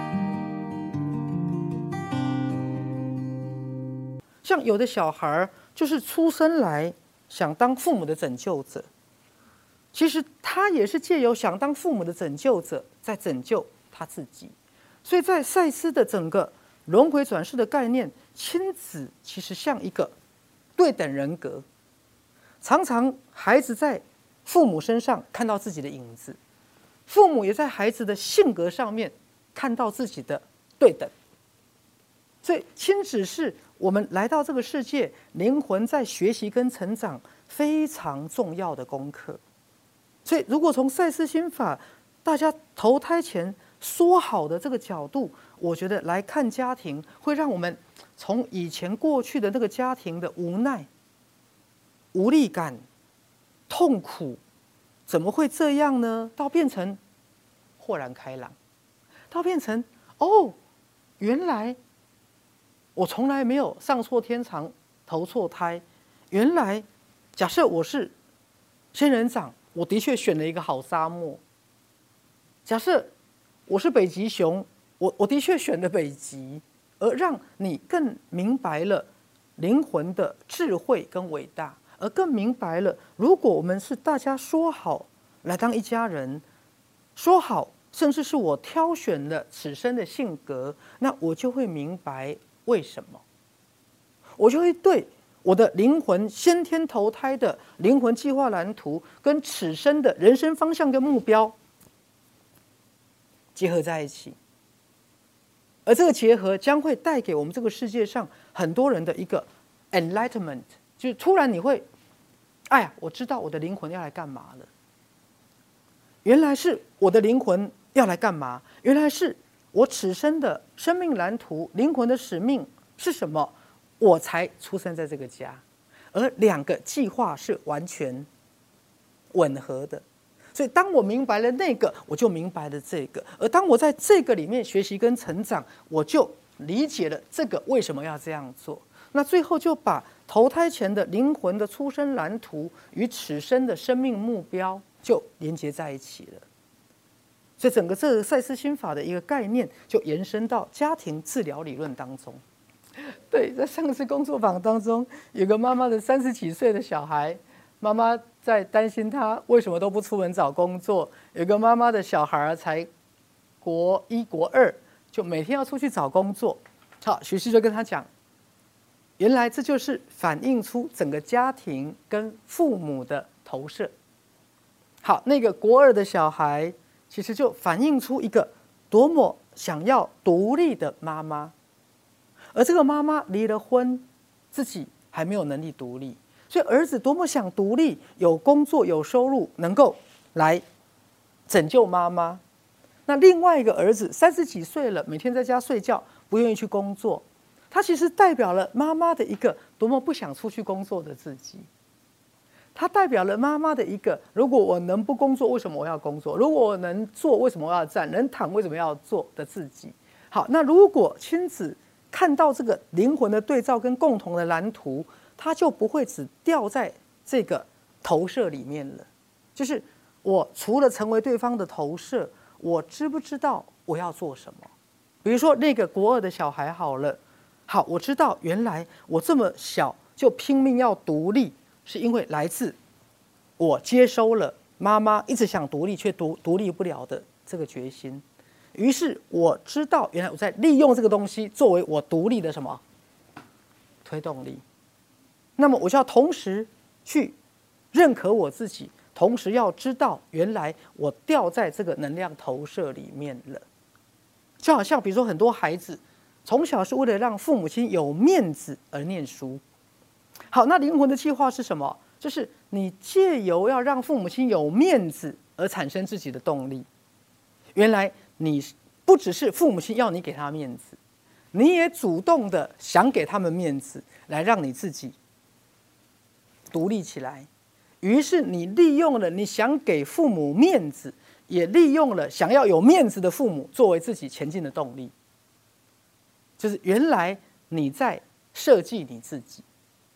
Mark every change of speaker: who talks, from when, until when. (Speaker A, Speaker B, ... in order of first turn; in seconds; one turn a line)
Speaker A: 4.4-8.9
Speaker A: 9.9-20.1
Speaker A: 20.8-21.6
Speaker A: 22.6-26.4
Speaker A: 27.1-31.1
Speaker A: 32.4-39.4
Speaker A: 40.2-50.9
Speaker A: 52.1-52.8
Speaker A: 53.7-54.4
Speaker A: 55.1-57.0
Speaker A: 57.8-58.5
Speaker A: 59.3-60.6
Speaker A: 61.2-61.8
Speaker A: 63.0-66.8
Speaker A: 67.4-68.1
Speaker A: 68.9-71.4
Speaker A: 72.7-73.1
Speaker A: 73.7-86.4
Speaker A: 87.2-93.2
Speaker A: 94.4-101.5
Speaker A: 103.5-104.4
Speaker A: 105.9-111.9
Speaker A: 112.7-114.7
Speaker A: 116.2-128.3
Speaker A: 129.3-146.4
Speaker A: 147.6-152.4
Speaker A: 153.0-162.9
Speaker A: 163.6-168.1
Speaker A: 169.2-173.9
Speaker A: 175.0-181.5
Speaker A: 182.5-190.6
Speaker A: 191.5-192.4
Speaker A: 193.1-201.7
Speaker A: 202.8-224.7
Speaker A: 225.2-232.8
Speaker A: 233.6-238.2
Speaker A: 238.8-242.8
Speaker A: 244.0-244.6
Speaker A: 245.6-247.3
Speaker A: 247.9-253.7
Speaker A: 254.6-259.6
Speaker A: 260.5-266.9
Speaker A: 267.7-271.0
Speaker A: 271.5-275.1
Speaker A: 276.7-277.5
Speaker A: 278.0-285.1
Speaker A: 286.6-289.6